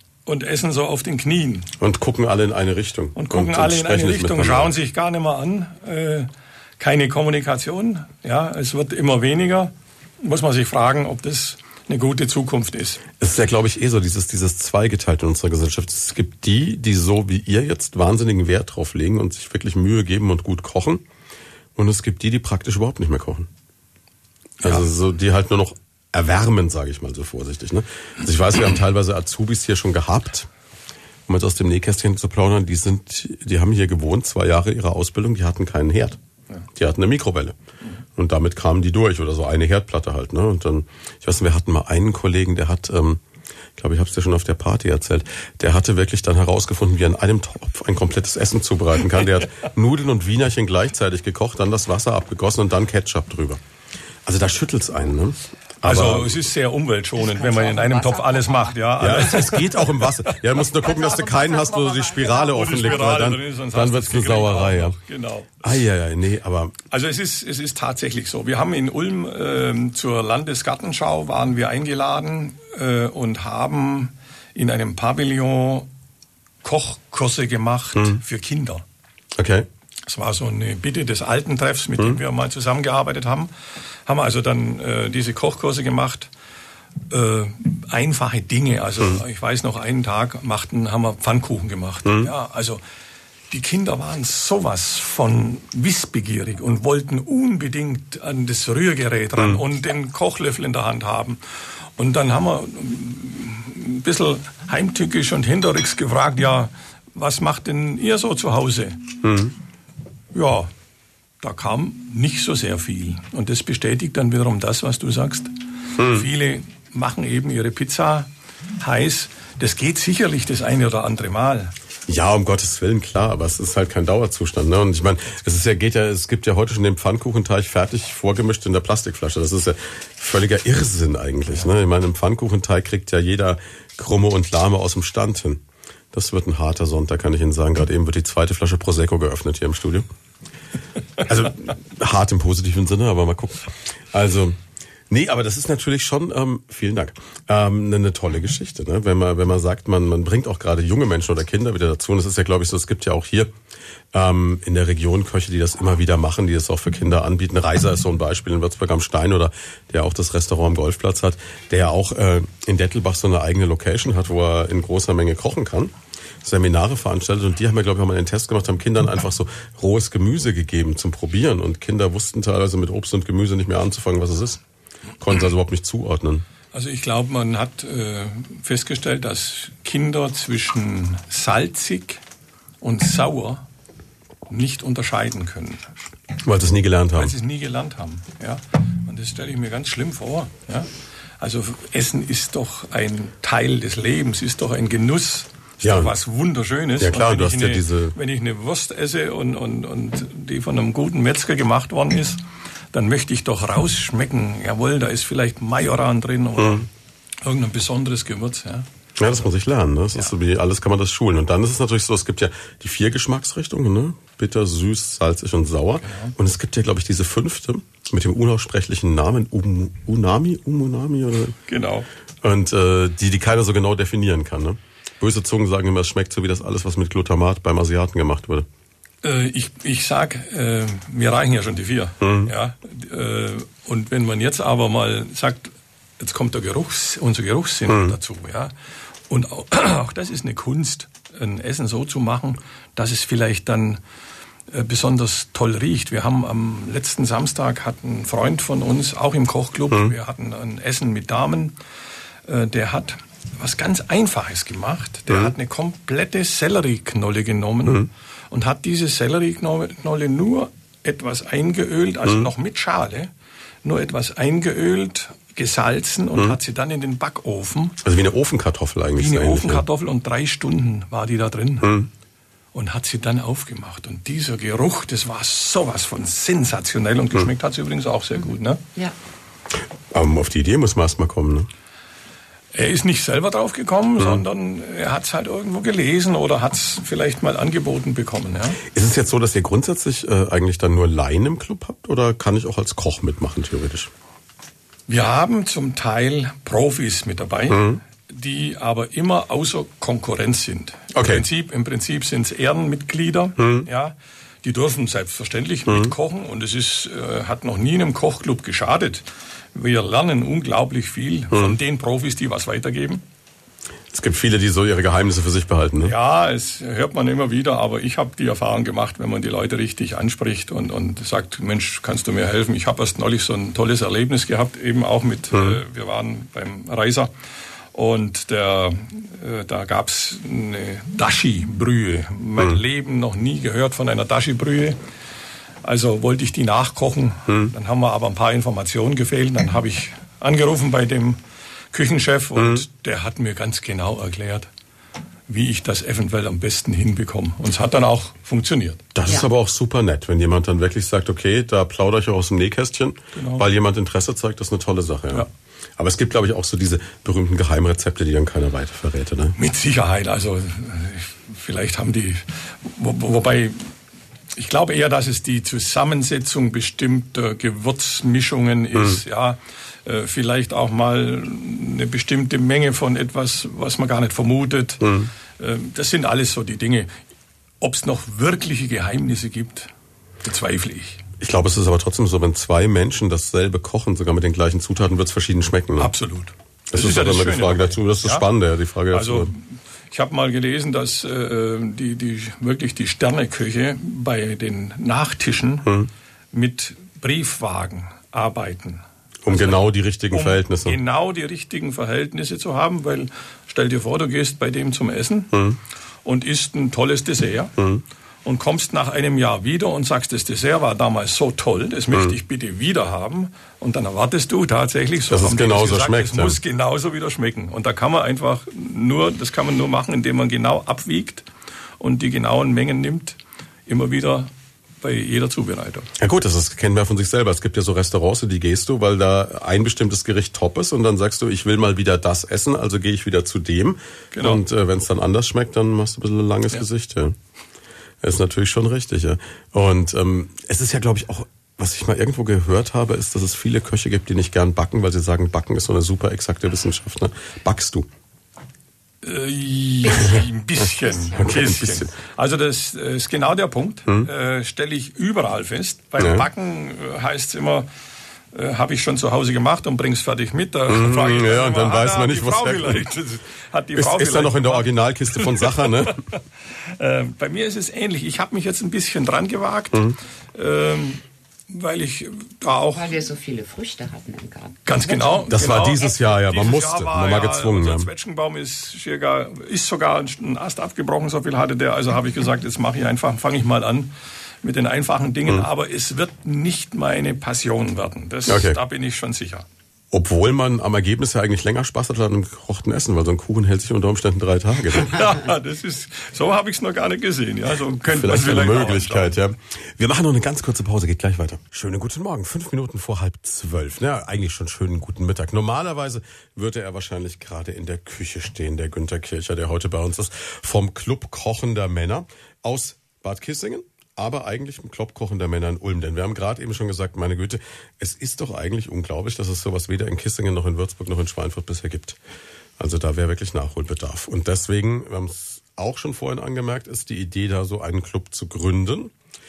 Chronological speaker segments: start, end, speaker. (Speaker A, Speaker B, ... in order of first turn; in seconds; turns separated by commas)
Speaker A: 0.3-1.7, Speaker B: 1.8-4.8, Speaker A: 3.1-13.0, Speaker B: 13.2-21.0, Speaker B: 21.8-23.5, Speaker A: 24.6-24.9, Speaker B: 24.6-30.5, Speaker B: 31.3-36.2, Speaker B: 36.8-37.6, Speaker B: 38.2-43.2, Speaker B: 43.8-53.6, Speaker B: 54.3-56.5, Speaker A: 55.8-60.3, Speaker C: 57.2-58.9, Speaker B: 59.0-65.0, Speaker C: 60.8-63.1, Speaker A: 62.5-65.8, Speaker B: 65.6-66.8, Speaker A: 66.9-75.9, Speaker A: 76.6-78.8, Speaker B: 78.0-78.2, Speaker B: 79.4-79.7, Speaker A: 80.1-83.5, Speaker A: 84.0-86.3, Speaker A: 87.1-92.8, Speaker B: 92.0-92.3, Speaker A: 93.5-109.2, Speaker B: 99.4-99.6, Speaker B: 109.2-109.5, Speaker A: 110.3-110.7, Speaker A: 111.4-121.7, Speaker B: 116.0-116.3, Speaker B: 122.1-140.1, Speaker B: 141.2-144.6, Speaker B: 145.1-153.5, Speaker B: 154.1-165.9, Speaker B: 166.4-174.6, Speaker B: 175.2-176.4, Speaker A: 176.7-182.2, Speaker A: 182.8-183.7, Speaker A: 184.5-185.9, Speaker B: 186.4-187.3, Speaker A: 187.2-206.9, Speaker B: 195.8-196.1, Speaker B: 197.0-198.2, Speaker B: 206.6-206.8, Speaker A: 207.4-208.9, Speaker B: 209.2-221.6, Speaker A: 216.1-216.3, Speaker A: 221.7-222.1, Speaker B: 222.4-228.7, Speaker A: 229.2-238.7, Speaker B: 232.2-232.5, Speaker B: 237.9-238.2, Speaker A: 239.3-244.0, Speaker A: 244.7-251.8, Speaker A: 252.4-263.3, Speaker A: 263.8-268.0, Speaker B: 268.0-269.8, Speaker A: 269.2-271.9, Speaker B: 271.8-272.1, Speaker A: 272.7-278.8, Speaker B: 280.1-281.7, Speaker A: 282.7-288.8, Speaker B: 288.8-294.1, Speaker A: 295.1-313.2, Speaker B: 297.7-298.0, Speaker B: 301.1-301.5, Speaker B: 303.6-303.9, Speaker B: 305.9-306.1, Speaker B: 311.5-311.8, Speaker B: 314.1-316.1, Speaker A: 316.0-327.3, Speaker B: 325.5-325.8, Speaker A: 327.9-335.0, Speaker A: 335.8-341.4, Speaker B: 337.5-337.7, Speaker A: 341.9-344.7, Speaker B: 342.6-342.8, Speaker A: 345.5-349.1, Speaker B: 349.1-359.6, Speaker A: 353.4-353.7, Speaker A: 359.6-363.9, Speaker A: 364.5-377.1, Speaker B: 368.9-369.2, Speaker B: 375.0-375.3, Speaker A: 377.8-379.9, Speaker A: 380.4-381.2, Speaker B: 381.4-386.1, Speaker A: 386.0-388.4, Speaker B: 386.9-389.5, Speaker A: 389.1-395.9, Speaker B: 395.8-396.1, Speaker A: 396.5-405.5, Speaker B: 399.4-401.0, Speaker B: 405.5-405.8, Speaker A: 406.2-407.7, Speaker B: 407.8-408.0, Speaker A: 408.4-421.5, Speaker B: 412.1-412.4, Speaker B: 415.3-416.6, Speaker A: 422.0-426.1, Speaker B: 426.2-437.4, Speaker A: 434.3-434.6, Speaker B: 438.2-448.1, Speaker A: 449.2-457.9, Speaker B: 450.2-450.4, Speaker B: 451.4-452.2, Speaker B: 456.2-456.5, Speaker A: 458.5-470.0, Speaker B: 460.9-463.1, Speaker B: 464.0-466.2, Speaker A: 470.5-473.1, Speaker C: 472.9-475.5, Speaker A: 474.9-489.7, Speaker B: 475.5-478.1, Speaker B: 488.5-488.8, Speaker B: 490.1-495.2, Speaker A: 494.9-499.4, Speaker B: 498.1-522.2, Speaker B: 522.8-529.1